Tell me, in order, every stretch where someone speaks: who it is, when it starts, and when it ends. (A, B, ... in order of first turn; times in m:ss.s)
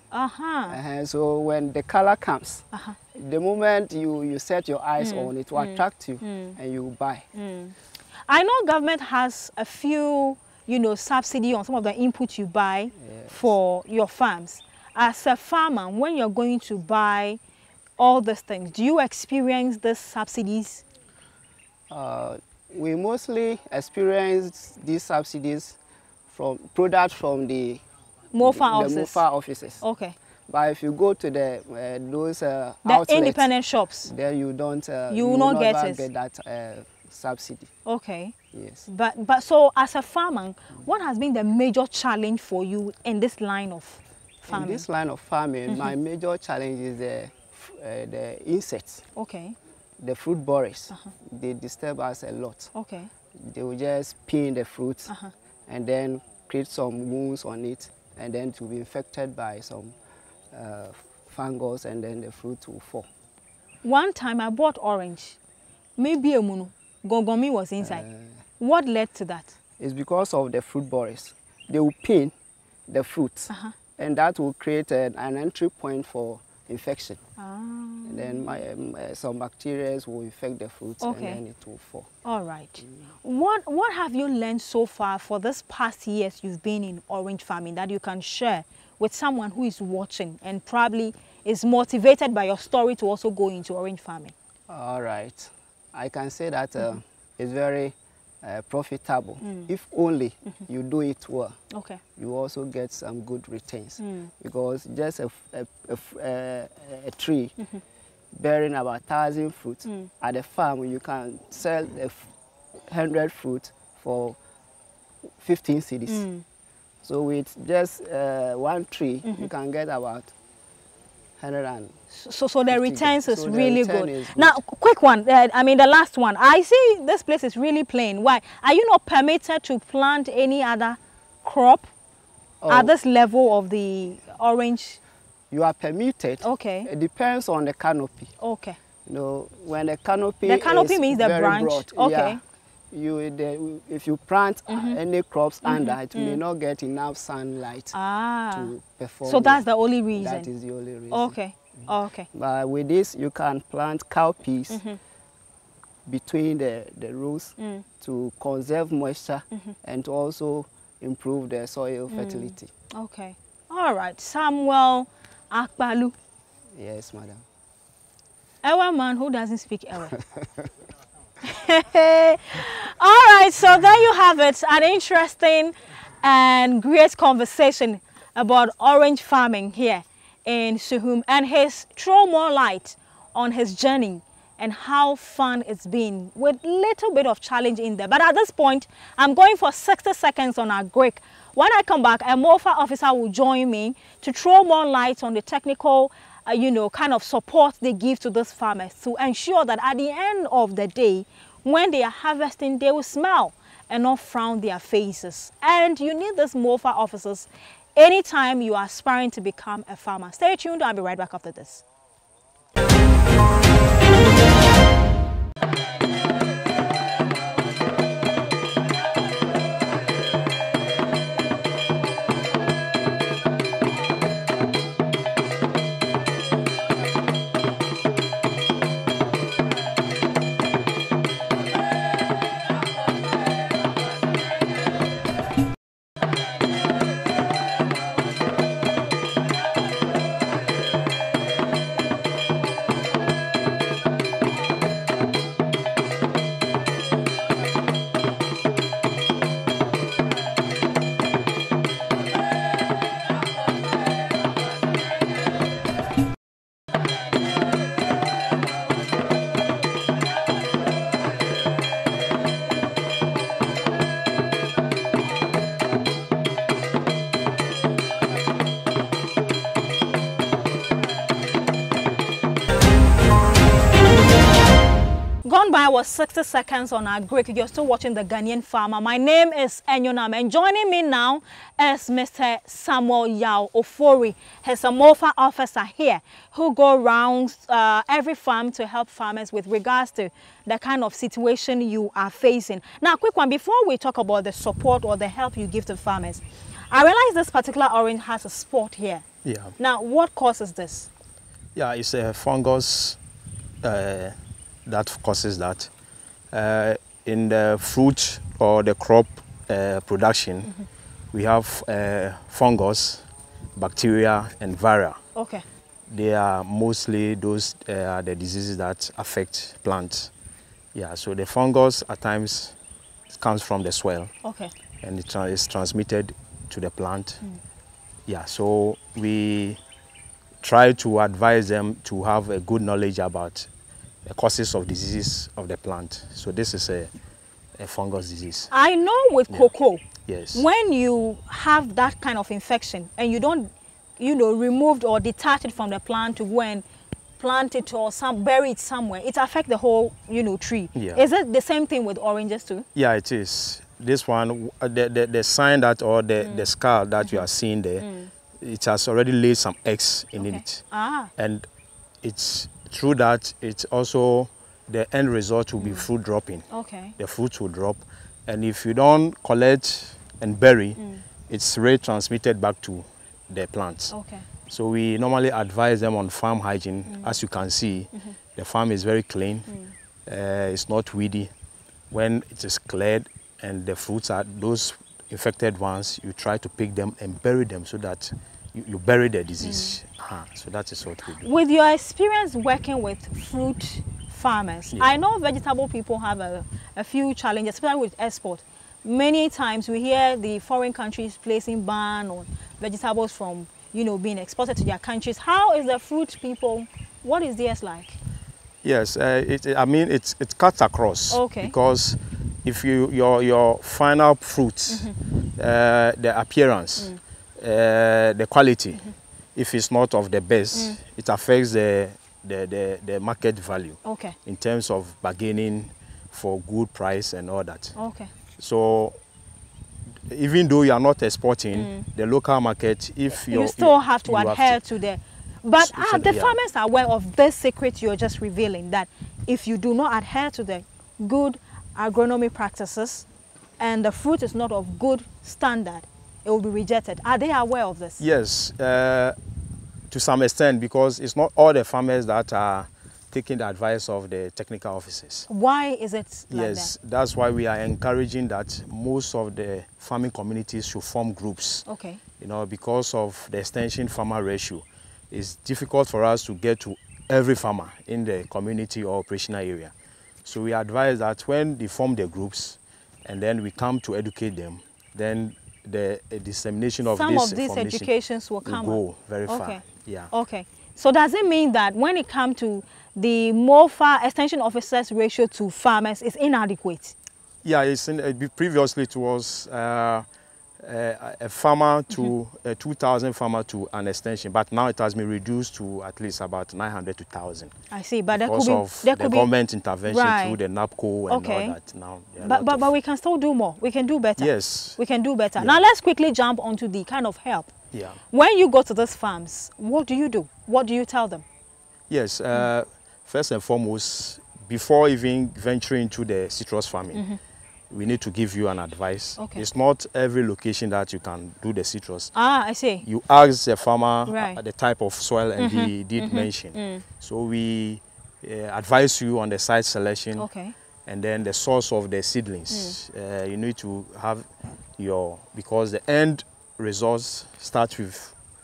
0:00.1-0:00.8 A
0:00.7-0:07.2 B
0:02.7-0:03.0 A
0:05.0-0:06.6 A
0:07.3-0:07.7 A
0:08.3-0:17.4 A
0:13.0-0:13.5 B
0:18.0-0:20.8 A
0:21.9-0:25.8 B
0:26.3-0:27.8 B
0:28.3-0:29.2 A
0:28.4-0:29.8 B
0:29.8-0:30.2 A
0:30.5-0:33.5 B
0:32.8-0:34.1 A
0:34.0-0:37.7 B
0:35.1-0:36.1 A
0:37.8-0:38.3 A
0:38.5-0:38.8 B
0:38.8-0:44.8 A
0:44.5-0:49.0 B
0:49.1-0:49.6 A
0:50.0-0:52.7 B
0:52.7-0:53.1 A
0:53.4-0:55.1 B
0:55.7-0:59.9 B
1:00.5-1:03.1 B
1:03.8-1:05.4 A
1:06.0-1:08.0 A
1:07.8-1:08.3 B
1:08.6-1:09.6 A
1:09.8-1:12.3 B
1:12.9-1:17.2 B
1:17.4-1:18.6 A
1:18.0-1:22.1 B
1:21.0-1:21.4 A
1:22.2-1:34.3 A
1:34.7-1:41.6 B
1:39.4-1:39.7 A
1:41.7-1:42.0 A
1:42.2-1:47.5 B
1:44.0-1:44.3 A
1:48.3-1:52.3 B
1:49.8-1:50.1 A
1:52.9-1:54.4 B
1:55.4-1:56.2 B
1:56.1-1:56.4 A
1:57.0-2:00.3 B
1:59.2-1:59.5 A
2:01.4-2:01.9 B
2:02.1-2:11.8 A
2:02.7-2:04.6 B
2:12.6-2:12.9 B
2:12.7-2:15.0 A
2:15.5-2:18.3 B
2:16.4-2:16.9 A
2:18.4-2:18.8 A
2:19.0-2:22.4 B
2:20.4-2:22.4 A
2:22.9-2:27.9 B
2:24.7-2:25.0 A
2:25.6-2:26.4 A
2:27.9-2:28.7 A
2:28.5-2:31.4 B
2:29.2-2:30.5 A
2:31.1-2:32.3 A
2:32.3-2:34.8 B
2:34.7-2:35.0 A
2:36.0-2:42.7 B
2:37.6-2:37.8 A
2:42.1-2:46.2 A
2:46.7-2:47.4 B
2:48.6-2:50.2 A
2:51.4-3:31.8 A
4:35.4-4:59.2 A
4:59.4-4:59.7 C
4:59.8-5:01.1 A
5:01.7-5:03.2 C
5:03.8-5:04.3 C
5:04.8-5:05.9 C
5:06.5-5:10.7 C
5:11.3-5:13.2 C
5:13.8-5:15.2 C
5:15.3-5:15.6 A
5:16.1-5:20.3 C
5:20.9-5:22.7 C
5:23.3-5:24.3 C
5:24.4-5:24.7 A
5:25.0-5:27.4 C
5:28.3-5:29.8 C
5:30.6-5:33.7 C
5:34.2-5:37.1 C
5:37.8-5:38.7 C
5:38.7-5:46.8 A
5:40.2-5:40.6 C
5:47.4-5:52.8 A
5:50.9-5:51.2 C
5:52.9-5:58.0 C
5:56.4-5:56.7 A
5:58.0-5:58.3 A
5:58.6-6:00.8 C
6:00.4-6:01.3 A
6:01.4-6:01.6 C
6:02.2-6:14.1 C
6:05.8-6:06.1 A
6:06.7-6:07.1 A
6:11.0-6:11.2 A
6:14.1-6:14.4 A
6:14.7-6:19.7 C
6:17.1-6:17.4 A
6:19.7-6:19.9 A
6:20.3-6:21.5 C
6:22.1-6:31.5 C
6:29.6-6:30.0 A
6:31.4-6:48.2 A
6:34.9-6:35.2 C
6:48.8-6:59.0 C
6:51.3-6:51.7 A
6:54.9-6:55.1 A
6:59.6-7:08.0 C
7:00.7-7:01.0 A
7:04.0-7:04.3 A
7:08.0-7:08.3 A
7:08.6-7:09.2 C
7:10.3-7:14.8 C
7:11.7-7:12.1 A
7:13.5-7:23.2 A
7:15.8-7:16.6 C
7:23.8-7:28.2 A
7:28.2-7:29.4 C
7:30.1-7:35.5 C
7:35.5-7:36.9 A
7:36.5-7:41.8 C
7:41.8-7:42.2 A
7:42.4-7:49.9 C
7:50.4-7:58.1 C
7:57.0-8:07.1 A
7:58.6-8:00.3 C
8:07.6-8:10.2 C
8:10.8-8:17.7 C
8:17.9-8:19.5 A
8:18.3-8:22.9 C
8:20.0-8:20.6 A
8:21.3-8:21.8 A
8:22.4-8:27.7 A
8:24.4-8:25.0 C
8:27.9-8:28.2 C
8:28.3-8:31.4 A
8:32.1-8:37.2 C
8:37.1-8:37.4 A
8:37.9-8:42.3 C
8:39.4-8:39.6 A
8:42.3-8:43.0 A
8:43.0-8:50.5 C
8:44.3-8:44.6 A
8:45.6-8:47.0 A
8:50.4-8:50.7 A
8:51.0-8:58.3 C
8:52.7-8:53.0 A